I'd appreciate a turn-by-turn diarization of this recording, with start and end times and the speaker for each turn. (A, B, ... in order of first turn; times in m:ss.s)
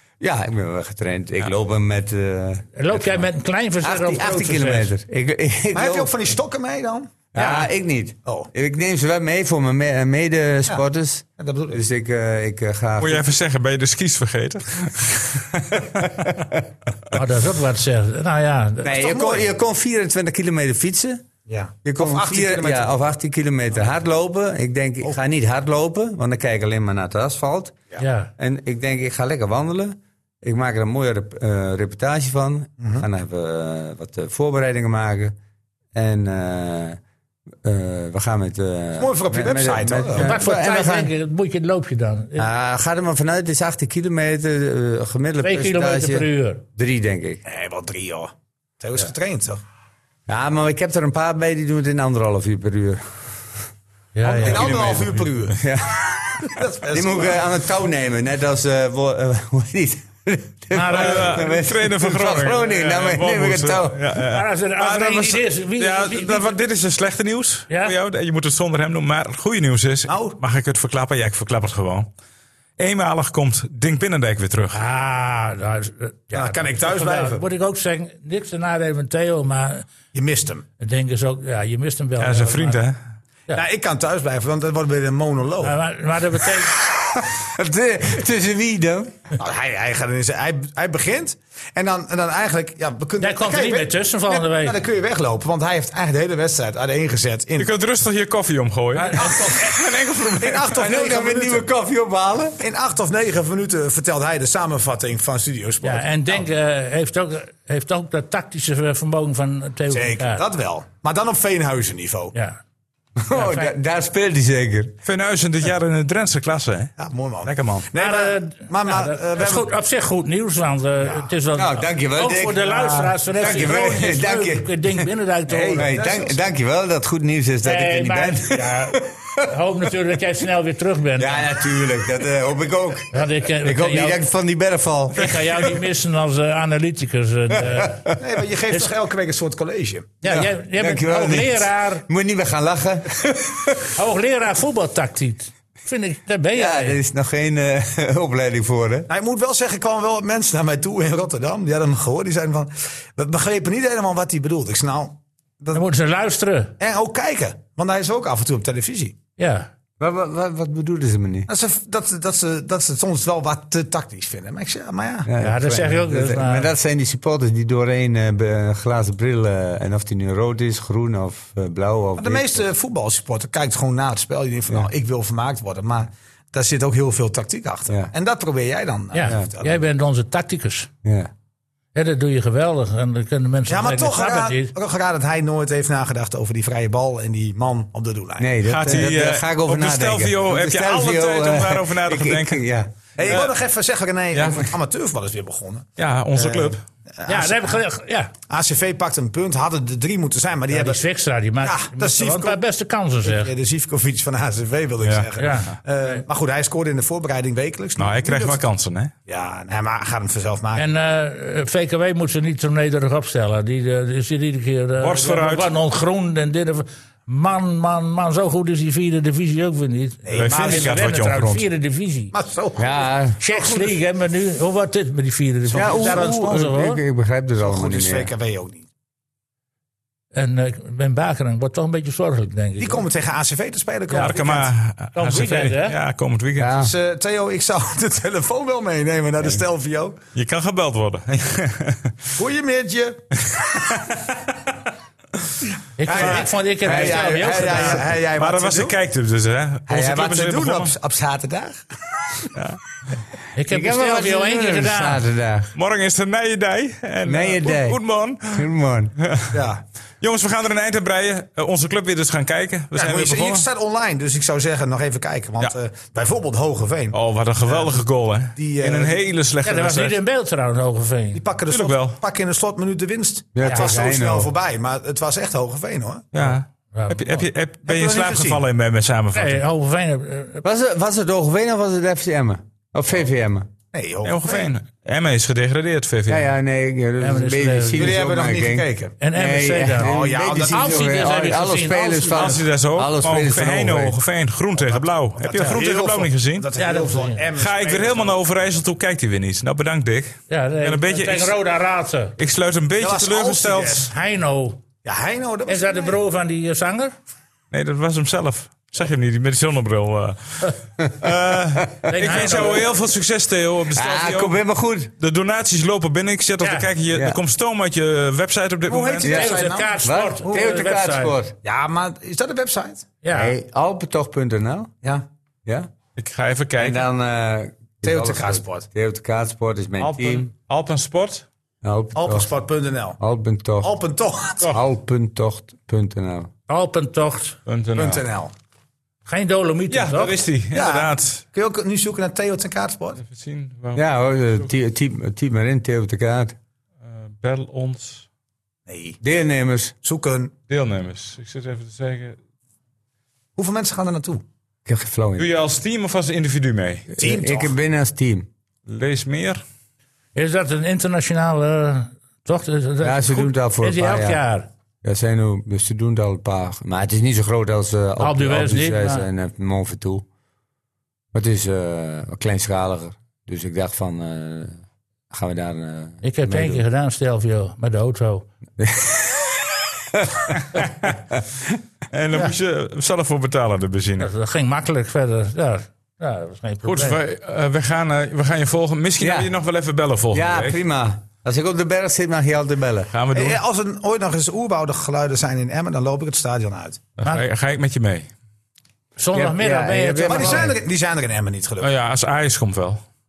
0:00.2-0:03.2 A
0:02.8-0:04.9 B
0:03.8-0:06.2 A
0:05.7-0:07.2 C
0:07.3-0:13.3 A
0:07.4-0:07.6 B
0:11.4-0:11.8 C
0:13.0-0:16.4 D
0:17.1-0:19.2 B
0:18.8-0:21.2 A
0:18.8-0:19.5 C
0:21.5-0:22.9 C
0:21.8-0:27.8 A
0:28.0-0:28.3 B
0:28.4-0:35.3 A
0:32.8-0:33.1 C
0:35.9-0:37.0 A
0:37.6-0:41.1 A
0:39.0-0:40.4 C
0:40.2-0:42.5 B
0:42.4-0:47.4 A
0:45.4-0:46.6 B
0:47.4-0:49.6 C
0:50.3-0:53.5 A
0:54.1-0:54.7 B
0:54.2-0:55.6 C
0:54.4-0:55.5 D
0:55.5-1:04.2 A
0:56.4-0:57.4 C
1:00.7-1:01.4 B
1:00.9-1:12.1 D
1:04.2-1:06.5 B
1:07.7-1:08.0 B
1:10.1-1:10.4 C
1:12.8-1:14.8 D
1:14.7-1:19.9 B
1:16.3-1:17.4 C
1:20.1-1:20.6 C
1:20.8-1:22.8 B
1:22.2-1:23.0 D
1:23.5-1:25.8 C
1:25.6-1:26.7 B
1:26.9-1:29.2 A
1:29.4-1:37.7 C
1:33.2-1:34.8 B
1:37.6-1:40.8 D
1:39.0-1:41.7 C
1:40.7-1:42.6 A
1:42.6-1:46.5 C
1:45.8-1:50.4 B
1:49.9-1:52.3 C
1:52.3-1:52.6 B
1:53.2-1:55.0 A
1:53.3-1:53.7 B
1:55.0-1:57.9 D
1:57.0-1:59.7 C
1:57.9-2:05.9 B
2:01.0-2:01.3 C
2:01.5-2:05.1 A
2:03.4-2:03.9 D
2:05.5-2:06.4 C
2:05.7-2:09.4 A
2:07.6-2:11.5 B
2:11.2-2:15.6 A
2:13.1-2:14.2 B
2:15.2-2:18.0 B
2:17.5-2:18.4 A
2:18.2-2:20.2 C
2:20.2-2:22.0 B
2:20.2-2:23.9 A
2:23.9-2:27.0 B
2:26.5-2:29.1 A
2:29.1-2:35.8 C
2:35.7-2:36.7 B
2:36.8-2:39.1 C
2:39.4-2:39.7 B
2:40.0-2:41.5 A
2:41.5-2:45.3 C
2:45.2-2:52.7 A
2:45.4-2:46.7 B
2:52.2-2:59.8 C
2:59.1-3:00.9 B
2:59.2-2:59.5 A
3:01.0-3:01.3 A
3:01.9-3:04.7 B
3:03.7-3:08.6 C
3:08.4-3:12.9 A
3:08.6-3:12.6 D
3:13.2-3:17.8 C
3:13.2-3:13.5 D
3:14.3-3:14.7 D
3:16.0-3:16.8 D
3:17.2-3:18.3 B
3:18.5-3:21.0 C
3:20.7-3:23.5 B
3:21.6-3:22.6 C
3:23.2-3:28.6 C
3:25.4-3:26.2 B
3:28.0-3:29.1 D
3:29.3-3:30.9 C
3:30.8-3:42.3 B
3:35.0-3:35.7 D
3:40.2-3:40.9 C
3:40.3-3:41.6 D
3:42.3-3:44.0 C
3:42.8-3:43.4 A
3:43.4-3:47.0 B
3:45.7-3:46.6 C
3:45.7-3:48.3 A
3:47.6-3:48.8 C
3:50.3-3:53.0 B
3:52.8-3:54.7 C
3:54.1-3:54.4 B
3:54.1-3:56.7 D
3:55.1-3:56.0 B
3:56.6-3:56.9 A
3:56.8-4:00.2 C
4:00.3-4:02.2 D
4:02.3-4:03.9 C
4:06.0-4:08.0 B
4:06.0-4:08.9 C
4:06.8-4:08.0 A
4:07.9-4:10.9 D
4:09.9-4:12.5 C
4:12.5-4:12.8 D
4:13.6-4:15.2 B
4:13.7-4:15.7 A
4:15.7-4:19.6 D
4:17.2-4:19.1 A
4:19.5-4:19.8 C
4:20.2-4:23.7 D
4:22.9-4:28.0 C
4:27.1-4:30.2 D
4:28.6-4:29.2 C
4:29.6-4:31.4 B
4:31.3-4:36.3 C
4:31.7-4:32.2 D
4:33.5-4:34.5 A
4:33.6-4:33.9 B
4:36.3-4:39.6 D
4:36.9-4:37.4 B
4:37.8-4:38.6 C
4:39.3-4:40.6 B
4:40.6-4:43.7 A
4:43.9-4:44.7 C
4:44.2-4:46.5 D
4:46.3-4:54.2 A
4:47.2-4:48.2 B
4:47.9-4:49.1 C
4:49.2-4:52.6 B
4:50.0-4:51.0 C
4:52.3-4:56.7 D
4:54.8-4:58.4 C
4:56.8-4:57.4 B
4:57.6-5:01.6 D
5:00.5-5:02.3 B
5:02.4-5:04.1 D
5:03.0-5:04.1 C
5:04.0-5:04.8 B
5:05.0-5:06.2 C
5:05.6-5:07.1 B
5:07.7-5:14.6 D
5:11.8-5:12.4 A
5:12.0-5:12.9 B
5:13.9-5:15.1 A
5:15.2-5:19.4 D
5:16.6-5:16.9 B
5:17.1-5:17.4 A
5:18.9-5:20.7 C
5:19.2-5:21.4 B
5:19.2-5:21.6 A
5:21.6-5:23.1 C
5:23.2-5:23.5 B
5:23.3-5:24.9 A
5:25.6-5:25.9 A
5:26.2-5:27.0 D
5:26.8-5:30.5 A
5:28.0-5:28.8 C
5:30.0-5:31.4 D
5:31.8-5:32.5 A
5:32.1-5:33.2 C
5:33.2-5:33.9 A
5:33.8-5:34.7 C
5:34.6-5:36.5 A
5:36.7-5:37.6 B
5:37.6-5:38.2 D
5:38.0-5:38.5 C
5:39.2-5:40.4 B
5:39.9-5:41.4 D
5:40.7-5:43.2 C
5:43.2-5:44.0 D
5:43.9-5:46.6 A
5:47.0-5:48.2 D
5:48.9-5:49.2 C
5:49.2-5:49.9 A
5:50.0-5:50.5 C
5:50.7-5:52.4 D
5:53.6-5:54.4 C
5:54.8-5:55.5 A
5:55.4-5:57.1 D
5:57.1-5:58.5 A
5:57.2-5:57.7 C
5:58.9-5:59.6 D
6:00.3-6:04.7 B
6:03.0-6:04.4 A
6:05.0-6:10.2 A
6:08.2-6:09.3 B
6:11.3-6:16.8 A
6:16.2-6:18.5 B
6:18.8-6:19.5 A
6:20.1-6:21.4 A
6:20.7-6:21.2 D
6:22.1-6:24.3 D
6:24.2-6:27.2 B
6:26.8-6:30.8 D
6:29.2-6:29.5 A
6:30.3-6:33.1 A
6:33.1-6:33.6 D
6:33.3-6:37.0 C
6:37.2-6:38.3 D
6:39.2-6:40.7 B
6:39.3-6:40.8 A
6:40.3-6:41.9 C
6:41.8-6:43.0 D